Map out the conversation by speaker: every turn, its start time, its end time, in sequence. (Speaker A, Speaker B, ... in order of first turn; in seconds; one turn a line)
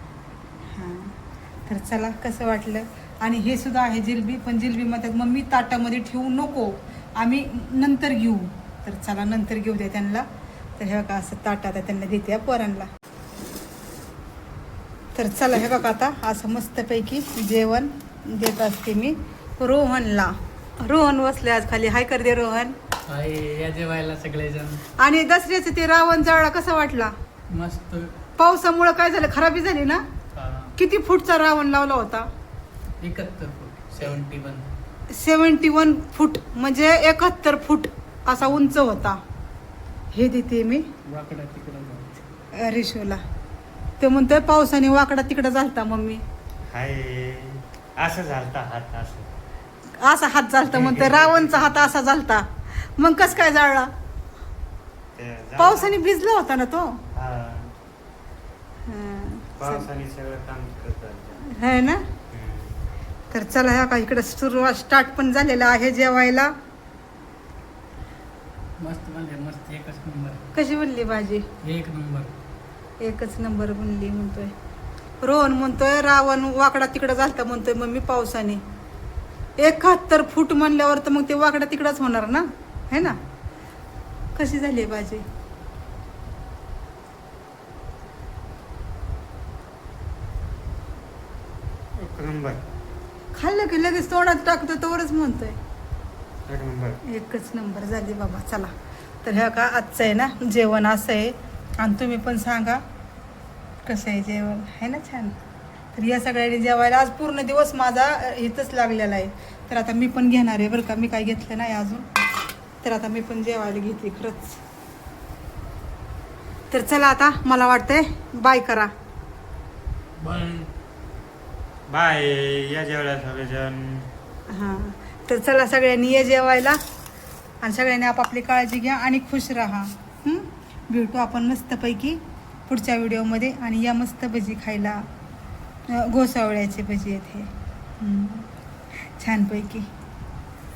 Speaker A: 0.7-10.3
Speaker A: 10.8-12.9
Speaker A: 15.1-22.8
Speaker B: 23.1-24.8
Speaker A: 25.0-27.1
Speaker B: 27.5-28.1
Speaker A: 28.4-30.0
Speaker B: 30.3-30.7
Speaker A: 30.8-32.3
Speaker B: 33.0-34.7
Speaker A: 35.1-39.2
Speaker A: 40.1-40.9
Speaker B: 41.0-42.2
Speaker A: 42.5-43.2
Speaker A: 44.0-46.2
Speaker C: 46.7-49.3
Speaker A: 50.0-53.9
Speaker C: 50.6-51.9
Speaker C: 55.1-56.0
Speaker A: 55.6-57.0
Speaker C: 57.1-57.7
Speaker A: 58.9-59.9
Speaker C: 59.6-61.4
Speaker A: 61.5-62.1
Speaker C: 62.3-62.9
Speaker A: 63.3-66.5
Speaker B: 68.8-70.5
Speaker A: 70.5-71.5
Speaker B: 71.6-72.3
Speaker A: 73.0-74.5
Speaker A: 75.2-78.6
Speaker A: 79.6-83.2
Speaker A: 84.3-85.2
Speaker C: 91.9-92.6
Speaker A: 93.3-95.6
Speaker C: 96.5-97.0
Speaker A: 97.0-98.7
Speaker A: 99.2-102.8
Speaker A: 103.8-105.4
Speaker A: 105.9-112.1
Speaker A: 112.8-114.6
Speaker A: 116.7-118.9
Speaker B: 120.2-120.7
Speaker C: 121.9-124.1
Speaker A: 124.5-126.8
Speaker A: 127.6-135.1
Speaker A: 135.9-138.5
Speaker A: 139.1-139.9